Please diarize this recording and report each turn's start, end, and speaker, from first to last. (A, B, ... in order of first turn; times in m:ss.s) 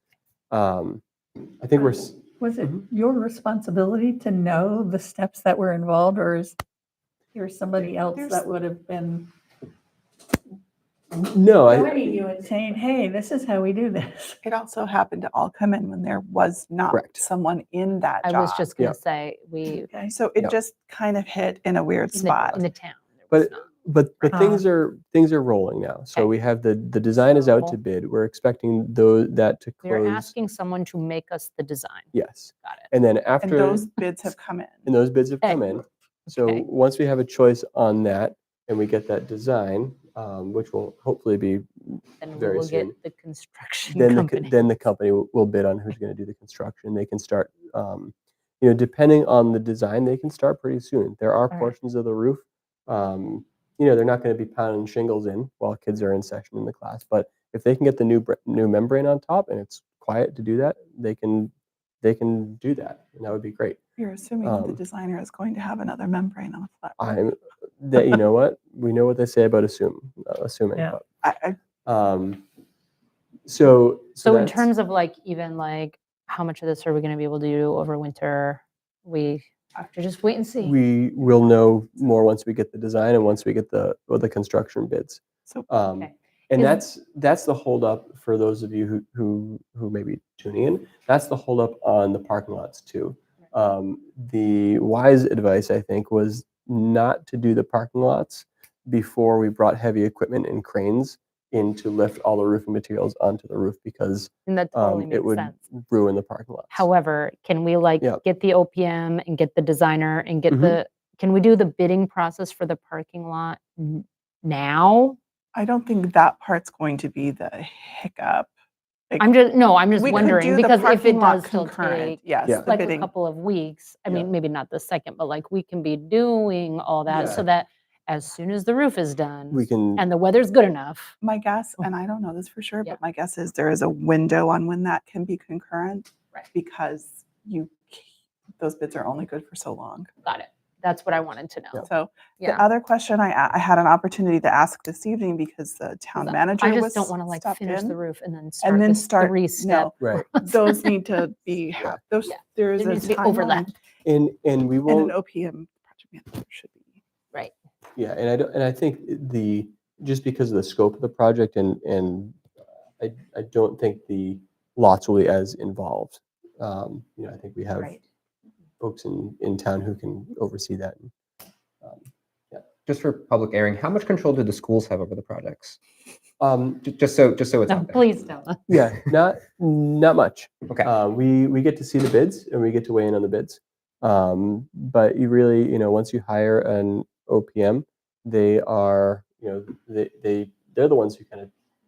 0:00.5-0:01.0 A
0:01.6-0:02.8 A
0:02.4-0:06.6 B
0:07.3-0:09.3 B
0:07.8-0:08.4 C
0:11.1-0:12.2 A
0:11.7-0:14.4 B
0:14.4-0:18.7 C
0:16.9-0:17.2 A
0:18.2-0:19.9 D
0:19.6-0:20.1 B
0:20.1-0:22.6 C
0:22.1-0:23.7 D
0:23.3-0:30.3 A
0:24.3-0:24.6 B
0:27.3-0:27.8 D
0:29.8-0:32.9 D
0:32.1-0:33.8 A
0:33.4-0:34.9 C
0:34.8-0:42.9 A
0:36.2-0:36.7 D
0:42.2-0:44.6 D
0:43.9-1:03.8 A
1:04.0-1:07.1 C
1:04.4-1:04.8 A
1:07.0-1:11.0 A
1:11.2-1:11.6 C
1:11.8-1:12.4 A
1:13.5-1:14.7 A
1:14.2-1:20.8 D
1:20.6-1:46.9 A
1:25.9-1:26.8 D
1:44.4-1:45.6 D
1:46.7-1:55.2 D
1:50.5-1:50.8 A
1:55.5-1:58.5 C
1:59.2-2:11.1 D
2:00.0-2:03.1 C
2:02.4-2:02.7 A
2:07.1-2:07.4 A
2:09.5-2:10.0 A
2:11.2-2:18.1 C
2:18.6-2:20.1 C
2:20.2-2:21.9 D
2:21.8-2:28.0 C
2:22.4-2:22.6 D
2:26.2-2:30.9 D
2:28.6-2:33.7 C
2:30.0-2:30.2 A
2:32.2-2:33.7 D
2:34.0-2:35.1 A
2:34.9-2:36.9 C
2:38.0-2:42.4 A
2:43.0-2:48.0 A
2:48.8-2:51.1 A
2:51.8-2:52.6 A
2:52.8-2:55.8 E
2:56.4-2:56.8 A
2:56.8-2:58.0 E
2:57.7-2:58.8 D
2:58.7-3:11.5 A